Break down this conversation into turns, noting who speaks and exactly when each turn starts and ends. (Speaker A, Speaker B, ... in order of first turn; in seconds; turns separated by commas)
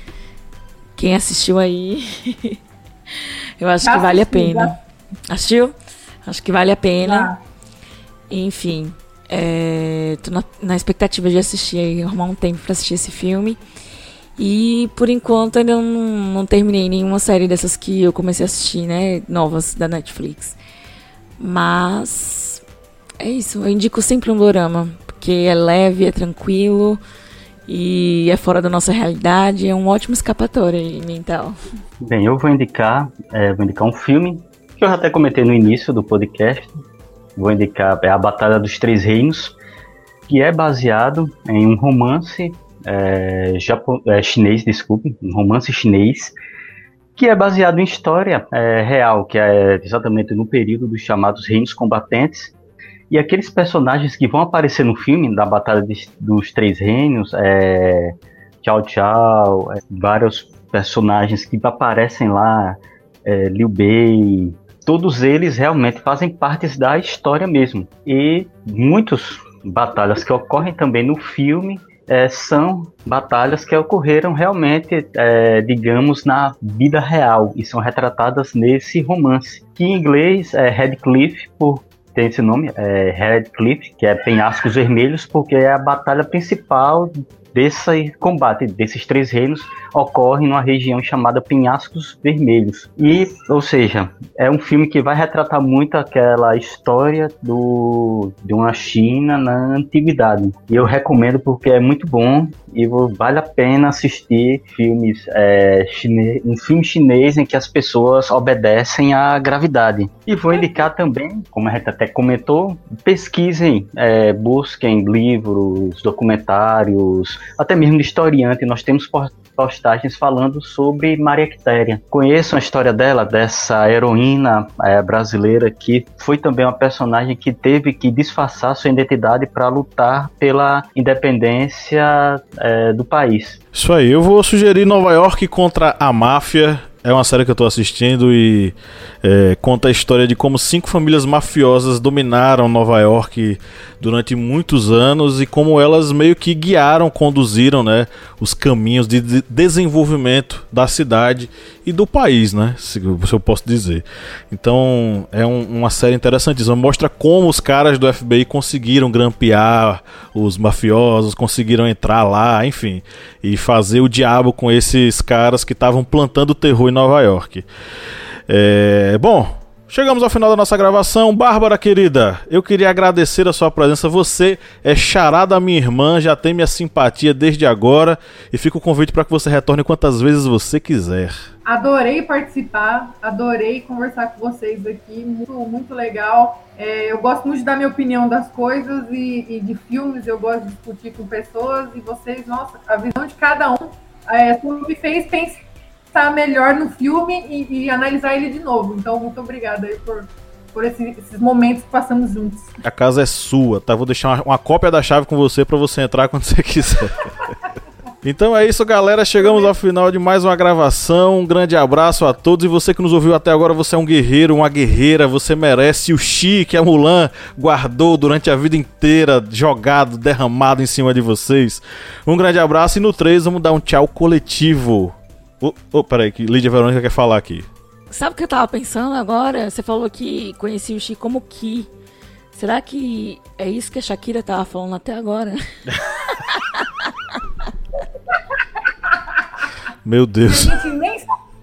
Speaker A: 1.0-2.6, Speaker A: 3.6-4.8, Speaker B: 3.8-4.8, Speaker A: 5.3-5.7, Speaker A: 6.3-7.3, Speaker B: 7.0-7.4, Speaker A: 8.3-13.6, Speaker A: 14.4-20.6, Speaker A: 21.4-22.6, Speaker A: 23.2-27.0, Speaker A: 27.7-31.6, Speaker C: 32.0-36.8, Speaker C: 37.4-39.6, Speaker C: 40.3-46.3, Speaker C: 47.2-52.5, Speaker C: 53.1-133.6, Speaker D: 133.7-167.7, Speaker D: 168.5-181.3, Speaker B: 181.7-202.8, Speaker D: 202.8-207.5, Speaker D: 208.2-227.7, Speaker A: 228.1-231.9, Speaker A: 232.5-237.1, Speaker D: 240.1-240.8, Speaker B: 240.5-241.3